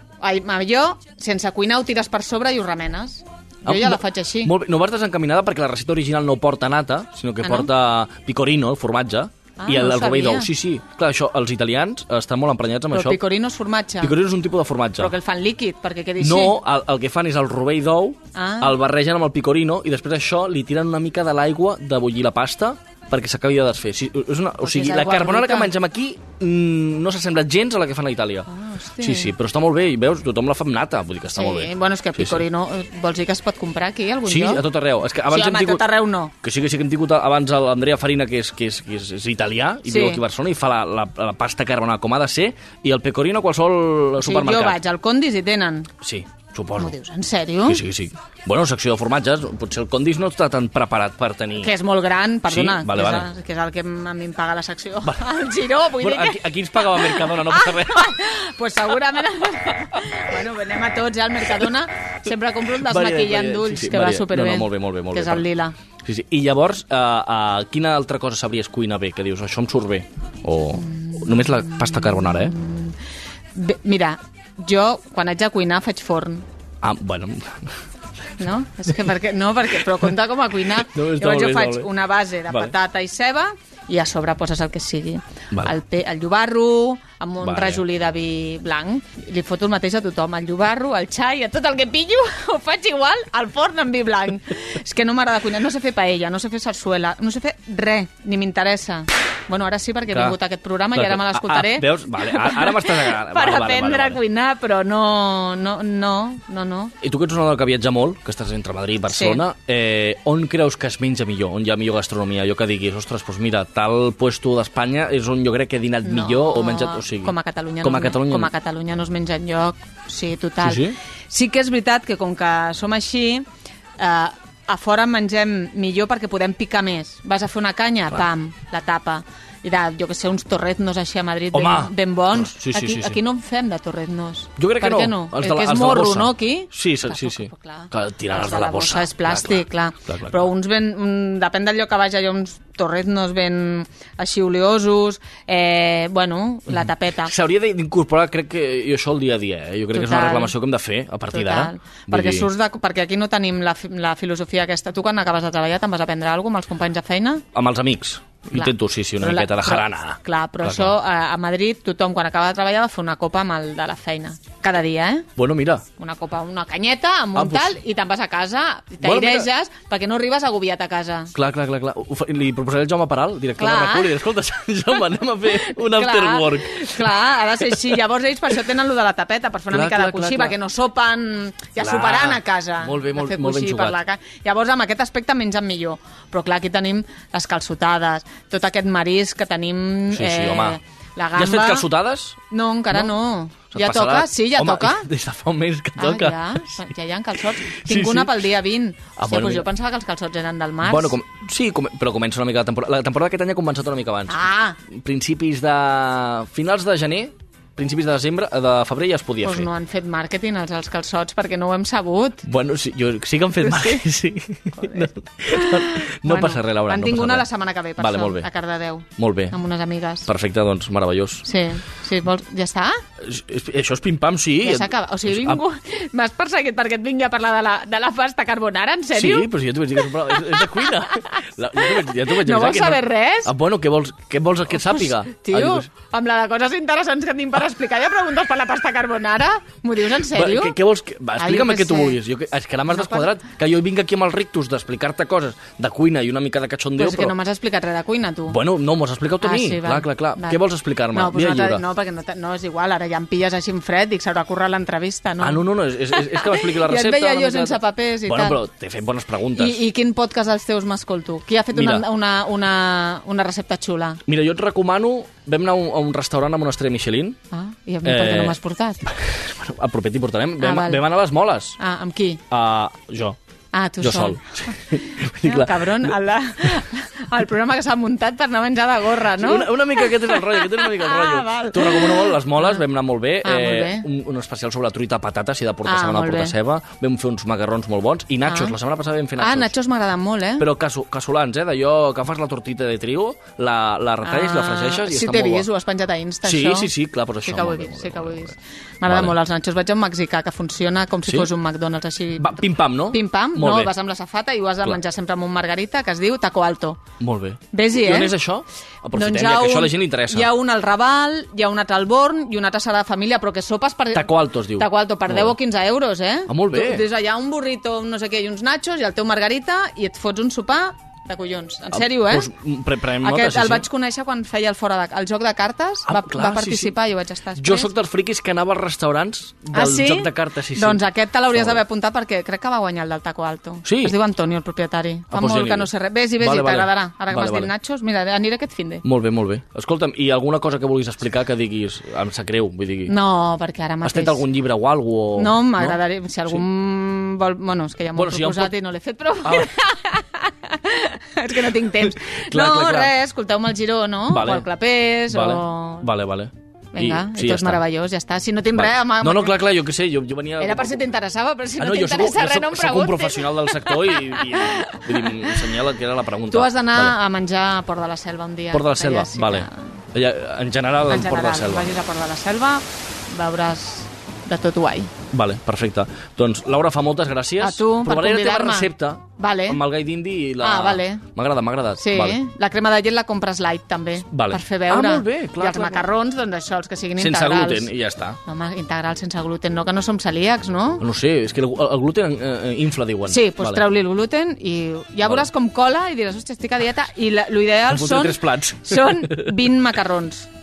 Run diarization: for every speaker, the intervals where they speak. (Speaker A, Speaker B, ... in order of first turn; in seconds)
Speaker A: 0.2-4.5, 7.4-7.7, 9.6-10.5, 12.9-14.1, 15.0-16.6, 18.4-18.8, 24.6-25.7, 28.5-29.3, 31.4-34.6, 35.3-36.3, 39.9-40.2, 44.2-45.9, 46.8-47.8, 51.6-65.7, 71.0-72.9, 73.5-76.4, 78.4-106.9, 109.1-109.4, 116.0-123.4, 124.0-147.3, 149.9-150.5, 151.3-157.4, 158.5-165.3, 166.0-171.3, 173.6-174.2, 175.5-191.8, 192.5-195.1, 196.0-201.1, 204.3-204.8, 209.4-212.4, 213.6-214.0, 214.8-220.3, 221.4-223.0, 224.6-229.5, 230.1-233.5, 234.8-240.8, 241.4-242.2, 242.9-243.3, 247.0-248.6, 249.4-250.6, 251.1-258.6, 259.6-264.2, 267.5-269.1, 270.6-271.0, 271.8-272.4, 273.7-282.8, 283.4-284.1, 285.9-286.6, 288.5-288.8, 289.4-290.6, 294.2-296.9, 297.4-307.0, 307.7-308.3, 309.1-322.5, 323.2-327.9, 329.7-339.0, 343.1-344.4, 345.4-356.1, 356.9-359.6, 360.6-365.7, 366.5-369.9, 371.1-375.1, 377.6-379.8, 380.6-381.2, 382.0-387.9, 388.4-391.0, 393.3-400.5
Speaker B: 3.6-13.2, 14.0-15.1, 16.2-28.5, 29.0-32.4, 34.3-35.8, 36.4-44.8, 46.0-47.0, 47.6-51.7, 52.5-53.3, 56.0-58.1, 62.8-65.5, 66.0-72.5, 76.8-77.8, 80.8-81.9, 87.4-87.8, 100.1-100.4, 100.9-104.2, 107.0-118.5, 120.6-121.0, 131.5-133.2, 134.6-140.5, 146.7-152.5, 157.5-160.9, 165.4-165.8, 167.3-167.8, 169.0-169.5, 171.3-177.2, 179.7-180.6, 181.8-184.0, 190.1-190.8, 191.4-192.4, 193.7-196.8, 197.7-198.4, 199.2-199.7, 200.8-204.4, 204.9-209.7, 212.4-217.4, 218.0-218.5, 219.2-219.6, 220.3-221.4, 223.2-225.6, 229.1-235.9, 240.3-247.4, 248.5-251.8, 255.4-259.8, 261.8-262.0, 264.3-267.4, 268.0-271.8, 272.5-273.4, 274.0-276.1, 279.4-289.7, 290.6-295.7, 296.4-298.6, 299.1-299.4, 302.4-303.9, 307.2-310.5, 314.1-315.6, 316.5-317.1, 321.9-323.9, 326.1-326.9, 327.6-331.8, 333.9-334.1, 335.3-337.7, 339.0-343.1, 344.0-346.6, 348.1-348.7, 349.4-349.7, 351.9-353.1, 354.3-354.7, 355.3-357.8, 358.8-361.1, 361.8-367.1, 368.7-371.9, 375.3-382.4, 384.3-386.1, 387.2-388.4, 391.0-393.8, 397.9-399.5